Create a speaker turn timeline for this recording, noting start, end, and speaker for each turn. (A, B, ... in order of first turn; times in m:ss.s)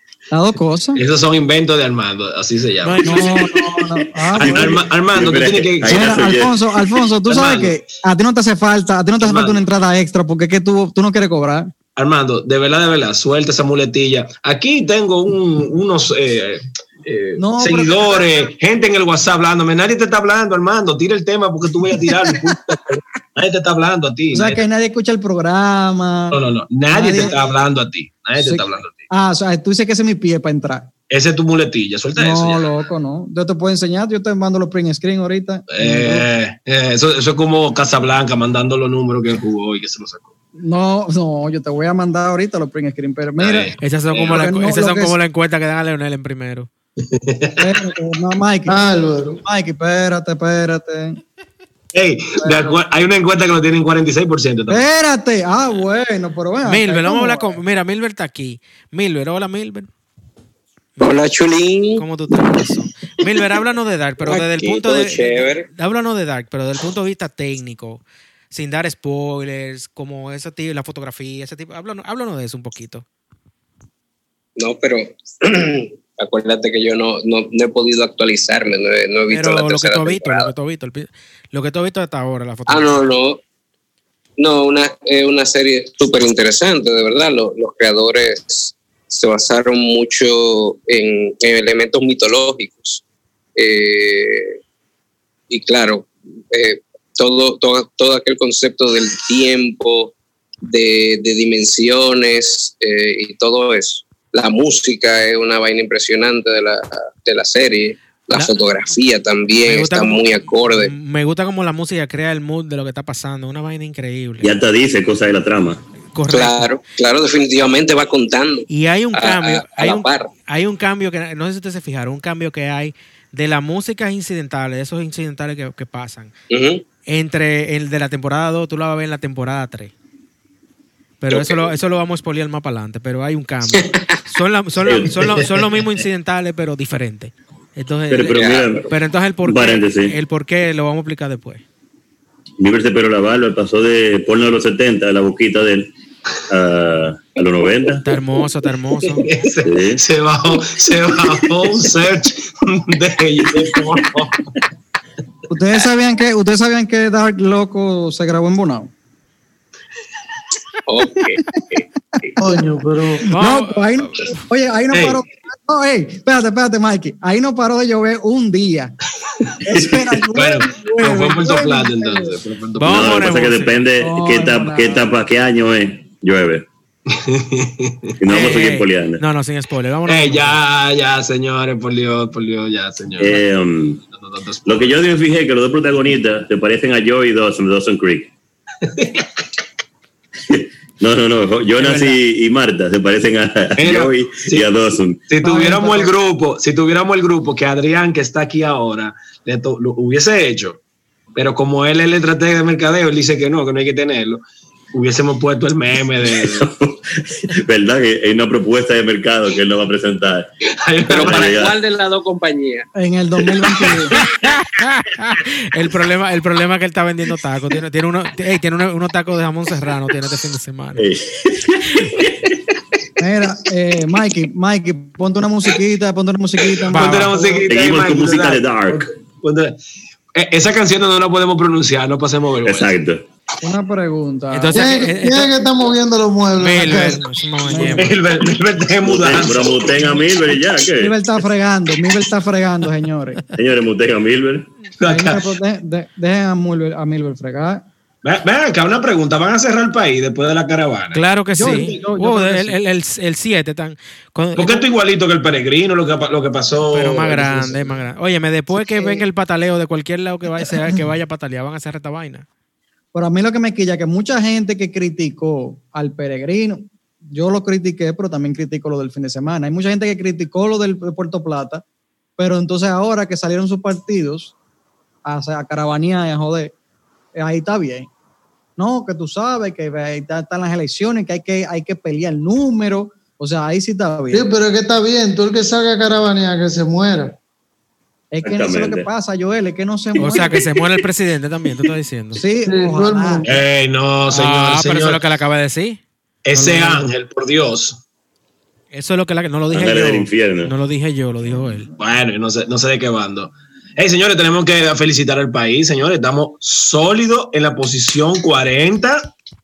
0:00.3-0:01.0 A
0:00.9-0:03.3 B
0:02.8-0:03.5 C
0:03.0-0:04.8 A
0:04.4-0:06.1 B
0:04.4-0:06.5 D
0:05.8-0:11.7 A
0:07.2-0:07.8 B
0:09.2-0:09.6 B
0:12.0-0:24.6 B
0:17.4-0:18.5 A
0:22.0-0:22.5 A
0:24.3-0:26.4 A
0:26.3-0:29.0 B
0:26.9-0:27.4 A
0:28.4-0:30.9 A
0:31.1-0:32.7 B
0:32.2-0:36.3 A
0:35.7-0:40.3 B
0:40.6-0:43.7 A
0:43.4-0:44.5 B
0:43.8-0:46.7 C
0:44.3-0:45.2 A
0:47.1-0:47.9 B
0:47.6-0:48.8 A
0:48.7-0:49.4 E
0:49.4-0:51.2 A
0:51.9-0:54.8 B
0:52.4-0:52.8 A
0:54.7-0:57.6 A
0:56.6-0:59.9 C
1:01.0-1:03.4 F
1:02.0-1:13.0 C
1:04.2-1:05.7 F
1:14.6-1:20.5 F
1:19.3-1:23.0 C
1:22.7-1:23.4 F
1:24.4-1:33.0 F
1:33.6-1:34.6 F
1:35.5-1:40.1 F
1:40.6-1:50.9 F
1:49.6-1:54.5 C
1:54.4-1:55.8 D
1:56.1-1:56.7 C
1:56.3-2:00.3 F
1:58.7-2:06.3 C
2:06.5-2:06.8 F
2:07.0-2:09.9 C
2:11.2-2:21.6 C
2:11.3-2:11.7 F
2:13.7-2:14.2 F
2:14.8-2:15.5 D
2:18.1-2:18.9 D
2:18.3-2:18.9 F
2:19.4-2:20.2 D
2:22.6-2:25.9 D
2:26.5-2:28.0 D
2:28.0-2:29.3 C
2:29.0-2:34.4 B
2:29.6-2:30.0 D
2:35.5-2:38.9 A
2:40.9-2:41.8 F
2:42.4-2:43.2 E
2:43.2-2:44.4 C
2:43.4-2:48.9 A
2:44.9-2:45.2 B
2:49.4-2:53.2 B
2:49.6-2:52.4 A
2:52.8-2:53.8 C
2:52.9-2:56.6 D
2:54.0-2:55.1 A
2:57.1-2:58.1 B
2:58.2-2:59.2 D
2:58.3-3:00.6 C
3:00.0-3:03.4 B
3:03.2-3:04.0 D
3:04.1-3:05.0 B
3:04.6-3:08.3 D
3:08.9-3:09.3 B
3:10.5-3:15.2 D
3:11.8-3:12.2 C
3:13.8-3:14.7 B
3:15.3-3:20.8 B
3:15.4-3:16.1 A
3:21.4-3:24.4 B
3:24.9-3:26.7 B
3:26.3-3:30.5 D
3:30.8-3:31.6 B
3:31.1-3:31.7 D
3:31.1-3:32.9 F
3:32.9-3:34.2 A
3:34.1-3:41.0 C
3:41.0-3:42.3 D
3:43.2-3:47.7 A
3:46.9-3:49.8 B
3:46.9-3:47.4 C
3:47.7-3:49.1 D
3:50.3-3:52.9 B
3:52.6-3:53.2 D
3:53.6-3:55.0 A
3:54.5-3:55.5 C
3:54.7-3:57.2 E
3:56.6-3:58.2 C
3:57.6-3:58.2 A
3:57.7-4:00.0 B
3:59.0-4:01.1 D
4:00.8-4:03.4 A
4:03.5-4:04.7 D
4:05.0-4:05.5 B
4:05.0-4:07.8 A
4:08.2-4:12.0 B
4:11.1-4:14.8 C
4:11.5-4:12.8 A
4:14.6-4:18.0 B
4:16.9-4:22.4 C
4:18.7-4:19.2 A
4:23.1-4:31.8 A
4:32.4-4:34.5 A
4:35.2-4:36.7 A
4:37.4-4:38.1 A
4:38.8-4:44.5 A
4:44.3-4:47.3 E
4:48.3-4:50.6 A
4:48.4-4:49.1 D
4:50.2-4:52.4 C
4:52.3-4:53.5 A
4:52.6-4:53.6 E
4:53.4-4:55.2 B
4:54.3-4:56.0 C
4:56.4-4:58.0 B
4:56.5-4:57.0 C
4:58.9-5:01.9 C
4:59.7-5:00.7 D
5:02.0-5:09.3 B